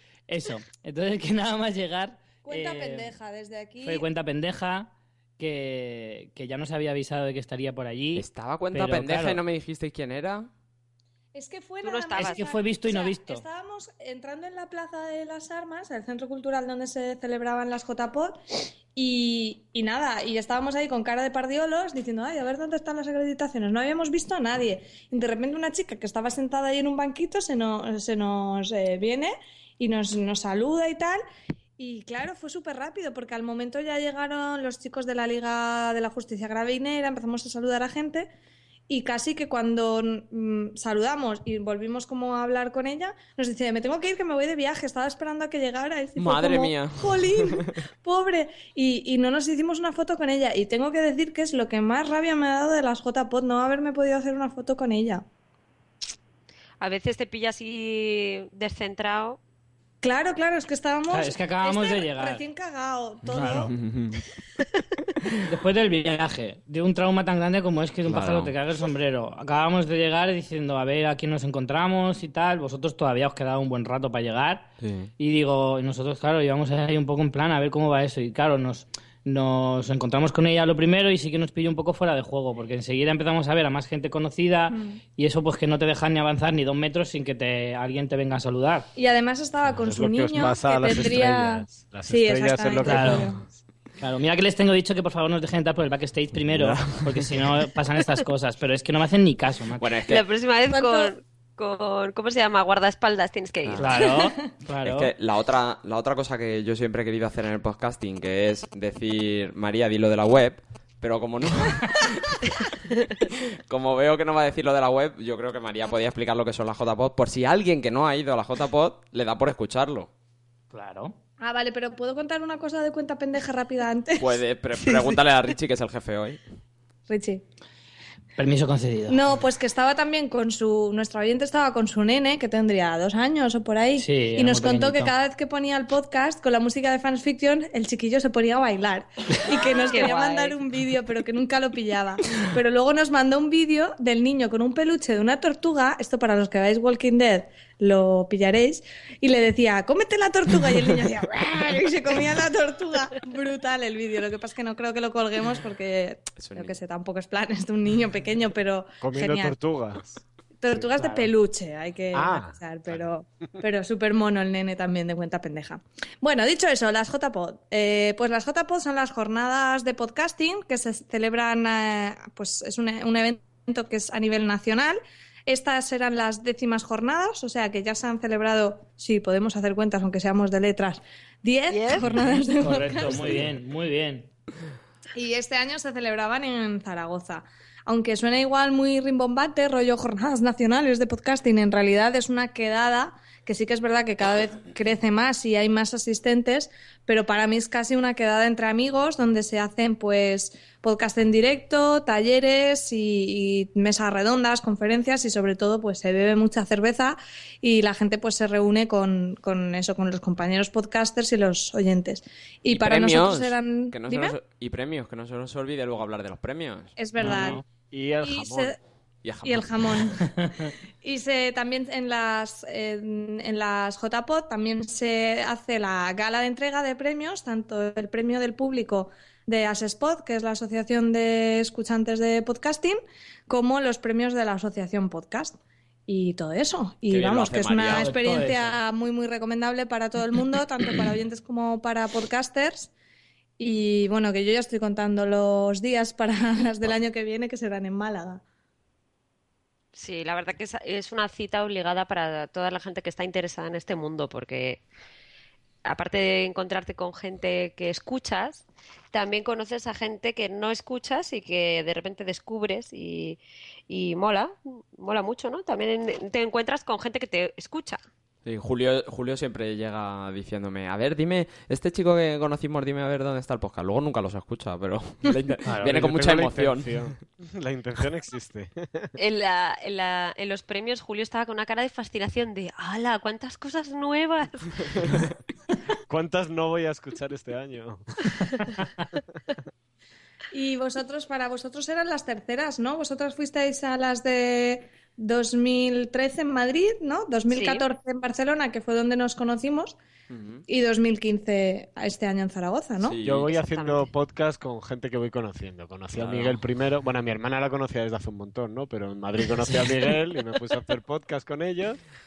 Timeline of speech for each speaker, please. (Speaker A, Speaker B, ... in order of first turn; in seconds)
Speaker A: 0.3-3.1, 3.8-9.4, 12.2-13.4, 61.1-62.4, 63.3-63.7, 65.4-88.9, 92.8-93.3, 94.0-99.9, 103.8-105.1, 120.7-121.2, 128.4-129.2, 134.0-135.1, 161.0-161.3, 182.6-184.3, 217.2-217.6, 237.9-238.8
Speaker B: 2.5-4.0, 11.3-18.4, 18.9-31.2, 31.8-38.3, 38.9-55.2, 60.0-63.7, 84.7-85.0, 89.0-93.4, 100.7-101.1, 121.4-125.1, 127.1-127.4, 129.1-159.6, 160.6-183.5, 185.2-214.4, 217.0-217.6, 218.2-218.8, 219.4-242.9, 243.6-248.4, 290.5-300.0, 300.7-303.2
Speaker C: 8.2-10.5, 46.2-47.8, 63.5-64.2, 68.1-68.5, 74.8-75.1, 96.5-97.5, 99.8-100.3, 103.6-104.1, 104.8-112.4, 113.6-120.1, 124.2-126.4, 156.4-156.8, 212.7-217.5, 219.2-220.1, 237.1-238.2, 268.4-277.1, 300.3-300.6, 303.0-303.6, 306.2-306.6
Speaker D: 11.8-12.4, 56.8-59.4, 100.1-104.1, 139.5-140.6, 181.7-182.1, 249.9-254.8, 255.8-268.0, 279.2-285.0, 297.5-297.9, 303.5-304.1
Speaker E: 89.7-93.5, 159.0-161.1, 162.1-163.1, 217.9-218.8, 275.7-279.1, 286.1-288.2, 303.2-312.0